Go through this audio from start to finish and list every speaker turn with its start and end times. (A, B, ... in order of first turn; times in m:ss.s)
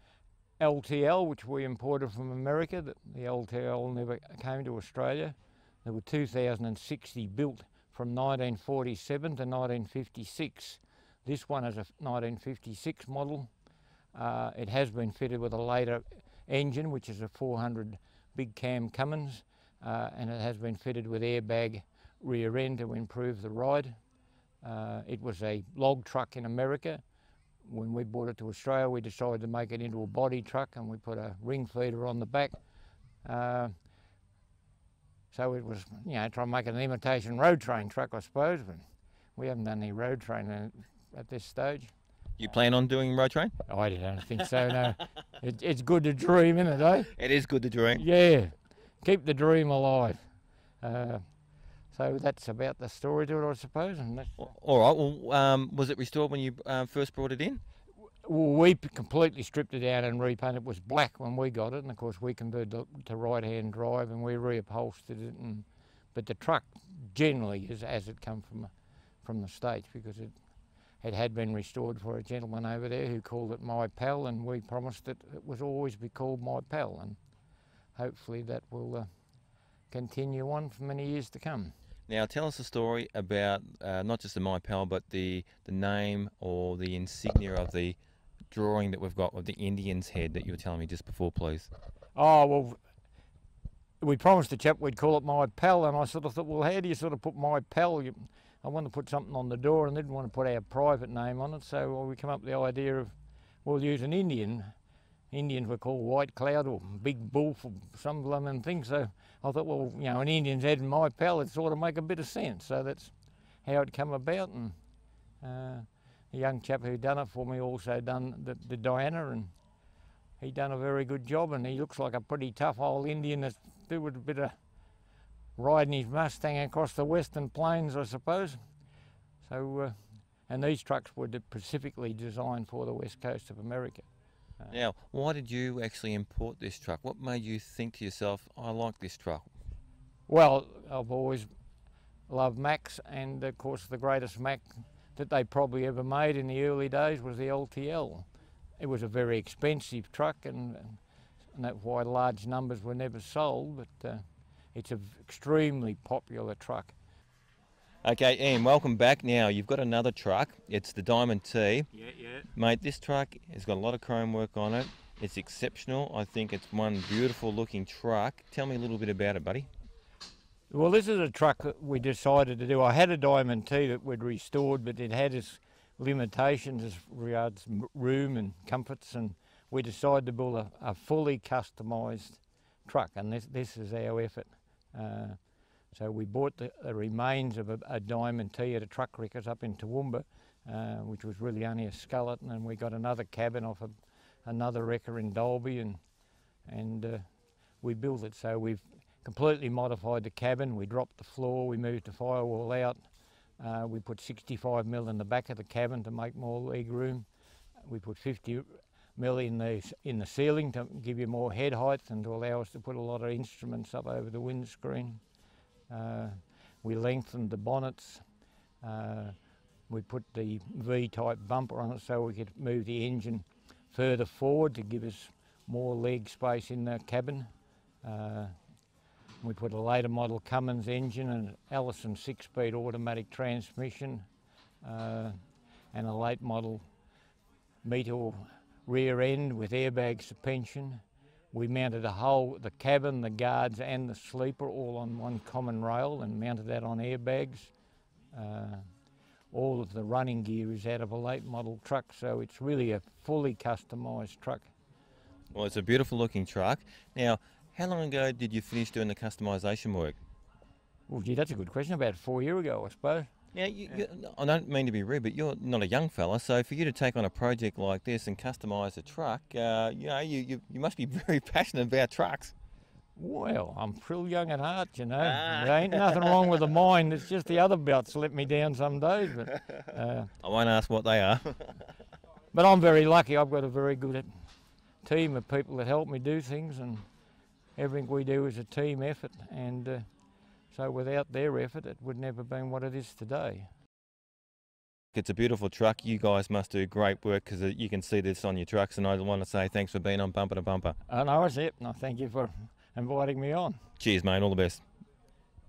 0:00.6-0:13.5 A
0:14.1-0:24.0 A
0:24.6-0:27.0 A
0:27.6-0:32.6 A
0:33.2-0:33.7 A
0:35.3-0:38.8 A
0:39.4-0:41.9 A
0:42.4-0:43.5 B
0:43.7-0:47.1 A
0:47.2-0:48.0 B
0:48.0-0:50.3 A
0:50.8-0:51.2 A
0:51.9-0:54.4 A
0:54.4-0:57.6 B
0:58.2-1:08.7 A
1:09.2-1:10.3 A
1:11.0-1:17.2 A
1:18.0-1:19.1 A
1:19.9-1:21.8 A
1:22.1-1:28.0 B
1:28.5-1:31.7 B
1:32.2-1:32.8 A
1:34.0-1:43.1 A
1:43.6-1:44.7 A
1:45.3-1:54.8 A
1:55.4-1:59.5 A
2:00.4-2:04.6 A
2:05.6-2:08.6 A
2:09.4-2:14.1 A
2:14.7-2:19.5 B
2:20.3-2:21.5 A
2:22.3-2:28.3 A
2:28.8-2:31.0 A
2:31.5-2:37.0 A
2:38.0-2:41.9 B
2:42.0-2:42.5 A
2:42.6-2:49.7 B
2:50.7-3:05.4 A
3:05.9-3:16.0 A
3:16.6-3:17.3 A
3:17.8-3:23.1 A
3:23.6-3:27.3 A
3:27.8-3:35.2 A
3:35.9-3:38.2 A
3:38.8-3:39.4 A
3:39.9-3:47.5 A
3:48.0-3:48.6 A
3:49.4-3:54.3 A
3:54.8-3:55.4 A
3:55.9-3:56.8 A
3:57.8-4:01.0 A
4:01.5-4:07.7 A
4:08.3-4:08.8 A
4:09.5-4:14.7 A
4:15.5-4:20.2 B
4:21.1-4:23.3 A
4:23.5-4:32.5 B
4:33.2-4:40.3 A
4:35.2-4:36.0 B
4:40.4-4:41.8 B
4:42.5-4:44.3 A
4:45.0-4:47.1 A
4:47.8-4:50.1 A
4:50.7-4:53.7 A
4:55.1-5:01.0 B
5:01.1-5:03.8 A
5:04.0-5:04.8 B